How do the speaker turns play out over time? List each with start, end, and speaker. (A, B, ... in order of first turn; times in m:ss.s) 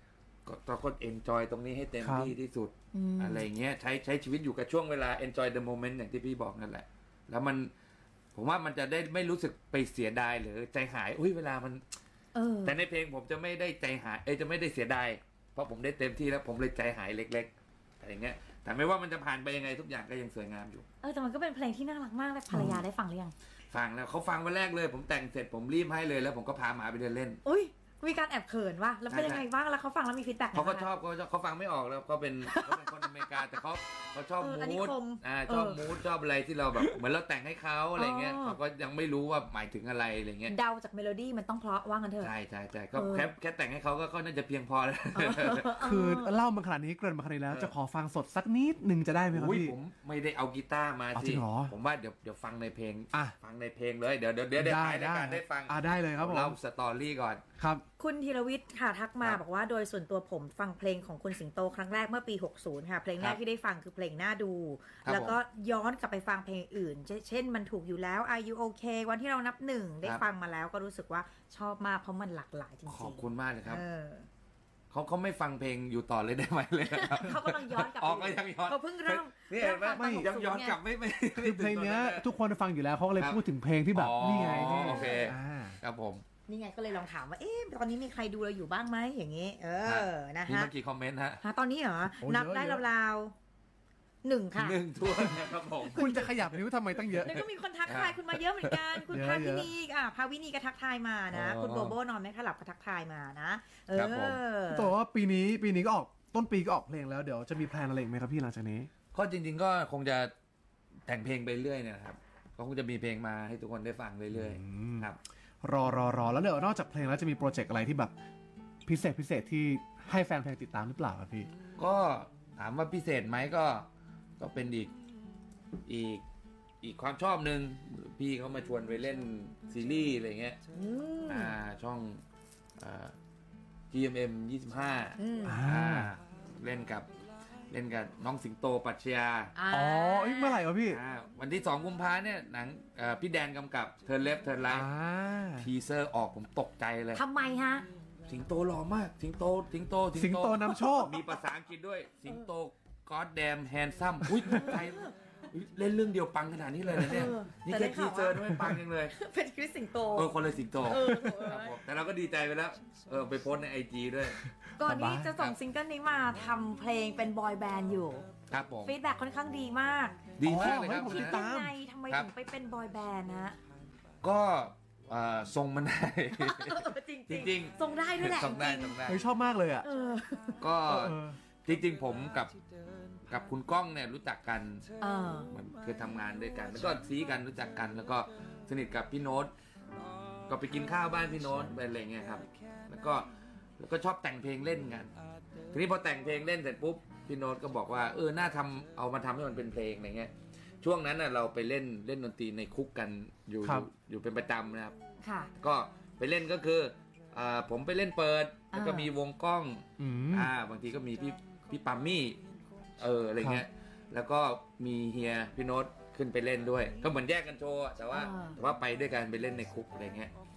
0:00.4-0:07.7 A
0:02.0-0:02.3 B
0:02.9-0:03.4 C
0:08.3-0:11.8 A
0:12.3-0:12.8 C
0:12.6-0:20.8 A
0:21.0-0:23.3 C
0:22.5-0:22.8 B
0:23.7-0:27.4 A
0:27.4-0:30.9 C
0:29.1-0:29.4 A
0:30.5-0:40.6 A
0:32.4-0:33.4 C
0:34.4-0:35.8 C
0:38.0-0:38.6 C
0:40.5-0:42.3 C
0:42.2-0:45.8 A
0:42.9-0:43.3 C
0:45.1-0:46.3 C
0:45.8-0:49.8 B
0:49.3-0:57.4 A
0:51.1-0:51.7 B
0:54.6-0:56.6 B
0:57.6-0:57.8 B
0:58.0-1:14.3 C
1:05.0-1:05.4 A
1:12.9-1:13.8 A
1:14.9-1:22.3 A
1:16.8-1:20.8 C
1:19.9-1:20.3 B
1:21.3-1:25.8 B
1:23.2-1:23.4 A
1:23.9-1:26.2 A
1:24.3-1:25.3 C
1:26.5-1:30.7 C
1:29.8-1:31.4 A
1:31.4-1:33.3 C
1:32.2-1:32.8 B
1:34.2-1:34.8 C
1:34.6-1:36.2 A
1:35.9-1:37.4 B
1:35.9-1:36.3 C
1:37.1-1:44.9 C
1:37.2-1:39.0 A
1:39.1-1:39.7 B
1:41.3-1:41.9 A
1:43.9-1:44.4 A
1:44.7-1:48.9 B
1:49.1-1:50.3 A
1:51.1-1:55.2 A
1:54.3-1:55.1 B
1:55.6-1:58.1 B
1:58.9-2:01.5 B
2:01.8-2:03.9 A
2:04.4-2:04.9 A
2:05.9-2:06.2 A
2:06.8-2:10.6 A
2:10.7-2:11.5 C
2:11.3-2:12.2 A
2:12.8-2:13.1 A
2:13.9-2:17.1 A
2:15.2-2:15.6 C
2:15.4-2:16.1 B
2:17.7-2:19.5 A
2:19.5-2:20.6 C
2:19.7-2:21.0 B
2:20.9-2:24.9 A
2:24.7-2:25.7 B
2:25.6-2:27.2 A
2:27.1-2:27.9 C
2:28.3-2:39.1 A
2:30.1-2:31.2 B
2:34.4-2:34.7 B
2:34.5-2:35.1 C
2:37.0-2:40.3 C
2:40.1-2:44.4 A
2:40.8-2:41.8 C
2:44.8-2:48.3 C
2:44.8-2:45.3 B
2:48.5-2:48.9 A
2:48.8-2:53.6 C
2:50.4-2:51.4 A
2:50.4-2:51.8 B
2:54.2-2:59.2 A
2:56.4-2:59.0 C
2:59.0-2:59.9 B
2:59.8-3:00.6 C
3:00.6-3:02.6 A
3:00.9-3:01.4 B
3:03.3-3:04.9 A
3:05.0-3:05.5 C
3:05.5-3:09.5 A
3:10.5-3:15.1 A
3:15.7-3:24.9 A
3:23.6-3:23.9 B
3:25.2-3:25.5 C
3:25.6-3:32.4 A
3:28.7-3:29.1 C
3:30.0-3:30.5 B
3:33.0-3:40.3 A
3:38.1-3:38.6 C